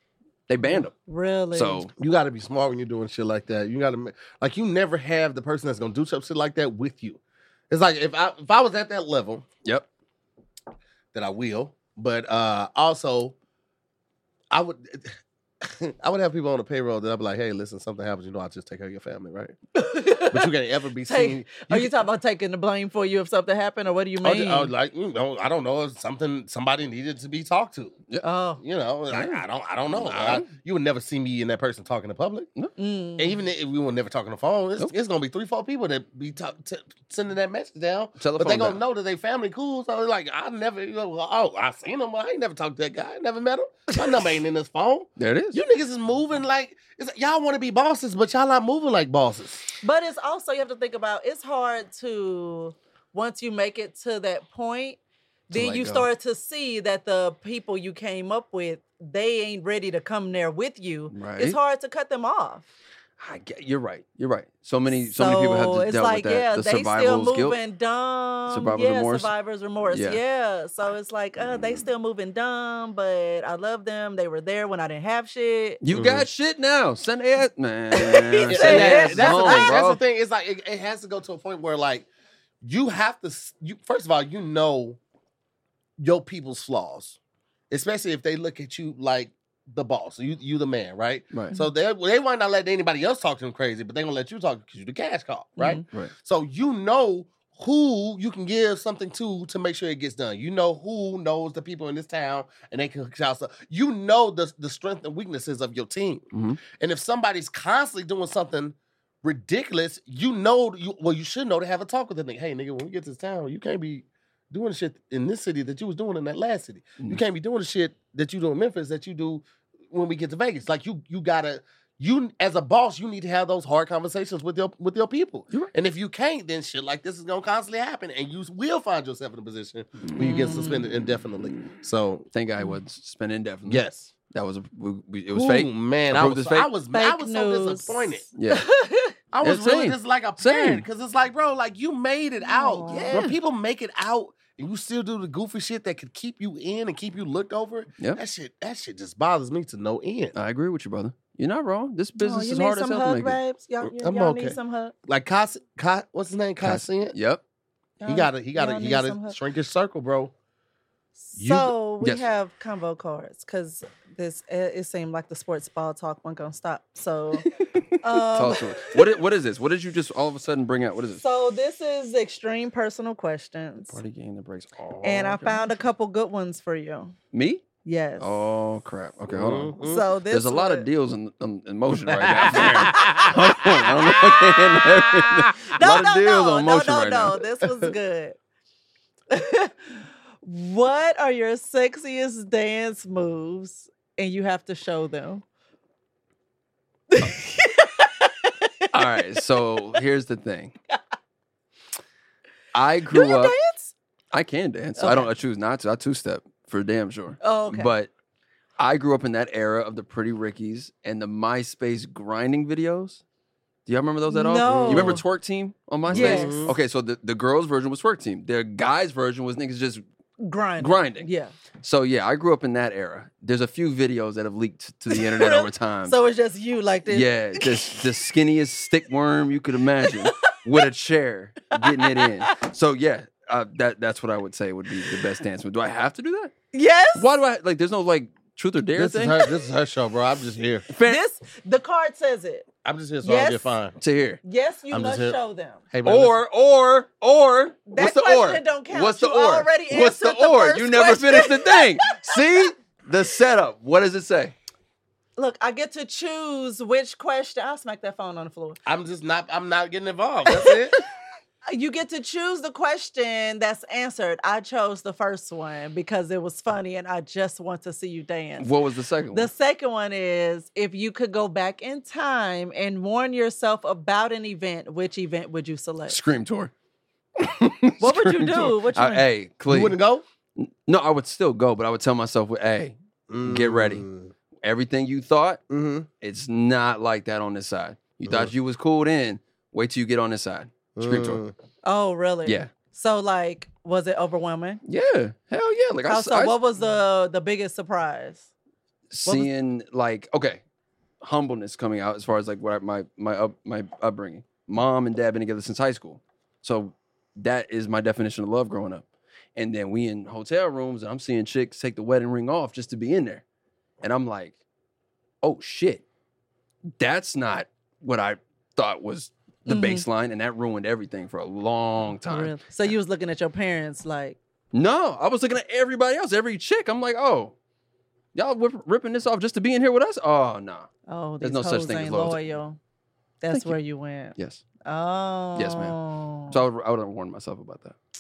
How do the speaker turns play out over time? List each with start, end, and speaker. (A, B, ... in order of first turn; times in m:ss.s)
0:00.5-0:00.9 A
0:00.6-0:01.8 B
0:01.5-0:01.9 A
0:02.0-0:09.4 C
0:11.1-0:13.4 C
0:14.5-0:19.5 C
0:19.7-0:20.5 B
0:20.2-0:22.0 C
0:21.0-0:24.7 B
0:24.2-0:28.0 C
0:28.2-0:28.6 B
0:28.6-0:32.5 C
0:29.1-0:30.5 A
0:32.8-0:33.4 B
0:33.2-0:49.6 C
0:38.2-0:38.8 A
0:45.2-0:45.6 A
0:49.8-1:02.7 B
0:55.5-0:56.1 A
1:01.1-1:01.6 A
1:03.2-1:07.6 A
1:04.9-1:15.8 B
1:08.5-1:09.3 A
1:09.9-1:10.2 A
1:15.8-1:20.0 A
1:15.9-1:16.3 C
1:17.9-1:19.7 B
1:18.5-1:22.1 C
1:22.6-1:25.0 C
1:26.0-1:27.2 C
1:27.7-2:12.2 C
1:35.6-1:35.8 B
1:35.9-1:36.1 A
1:46.3-1:46.6 A
2:10.0-2:10.7 A
2:10.2-2:10.9 B
2:12.3-2:16.7 A
2:13.6-2:14.1 C
2:15.3-2:18.3 C
2:16.9-2:19.1 B
2:18.3-2:18.6 A
2:19.3-2:30.3 C
2:19.4-2:20.8 A
2:22.4-2:23.3 B
2:22.9-2:23.3 A
2:30.3-2:33.4 A
2:32.2-2:34.9 B
2:33.8-2:37.1 C
2:36.6-2:37.4 A
2:38.0-2:39.4 B
2:38.1-2:40.3 C
2:41.2-2:47.5 B
2:41.4-2:41.7 C
2:42.0-2:42.2 A
2:47.4-2:51.2 A
2:48.0-2:49.0 B
2:51.2-2:54.0 B
2:53.9-2:55.7 A
2:55.0-2:57.1 B
2:57.3-2:57.6 A
2:57.8-2:58.4 B
2:58.2-2:59.8 A
2:59.3-3:00.0 C
2:59.8-3:00.9 B
3:00.3-3:07.4 A
3:02.1-3:05.8 C
3:02.6-3:03.6 B
3:05.7-3:08.4 B
3:09.3-3:09.7 B
3:10.4-3:15.4 B
3:17.1-3:19.4 B
3:18.9-3:20.7 A
3:22.7-3:23.5 A
3:23.1-3:23.9 B
3:24.3-3:28.1 A
3:25.0-3:25.3 B
3:27.4-3:27.9 B
3:28.8-3:33.2 A
3:33.8-3:40.0 A
3:34.3-3:35.2 B
3:34.6-3:35.2 C
3:36.1-3:36.8 C
3:36.1-3:36.7 B
3:40.4-3:41.5 B
3:40.8-3:41.3 A
3:41.8-3:46.2 A
3:45.1-3:48.0 B
3:47.1-3:56.5 A
3:50.0-3:50.5 B
3:51.7-3:52.6 B
3:56.7-3:57.3 B
3:57.1-3:59.4 A
3:59.0-4:00.8 C
4:00.9-4:01.2 A
4:01.0-4:02.7 B
4:02.8-4:04.0 C
4:03.2-4:03.7 B
4:04.0-4:04.4 A
4:04.4-4:05.8 B
4:04.9-4:05.4 C
4:05.9-4:06.4 C
4:06.0-4:14.5 A
4:07.9-4:12.4 B
4:15.4-4:18.8 B
4:18.8-4:21.0 C
4:21.7-4:28.7 B
4:28.6-4:29.5 A
4:29.3-4:36.2 B
4:36.1-4:36.7 A
4:37.4-4:40.0 A
4:38.0-4:39.2 B
4:39.7-4:40.2 C
4:40.6-4:44.0 A
4:43.3-4:44.3 C
4:44.6-4:45.6 A
4:45.7-4:46.1 C
4:46.2-4:51.4 A
4:48.2-4:48.5 C
4:51.0-4:51.5 C
4:51.8-4:54.8 B
4:54.8-4:56.6 A
4:56.0-4:58.5 B
4:59.1-5:00.6 A
4:59.2-4:59.5 B
5:01.2-5:09.0 A
5:09.6-5:13.4 A
5:14.0-5:14.5 A
5:15.4-5:16.0 A
5:17.0-5:22.9 A
5:19.7-5:20.0 B
5:22.3-5:24.4 B
5:24.7-5:27.5 A
5:28.3-5:30.9 A
5:31.1-5:32.8 B
5:31.4-5:32.4 A
5:33.4-5:36.6 B
5:33.5-5:33.8 A
5:34.4-5:34.6 A
5:35.6-5:36.0 A
5:36.5-5:38.0 A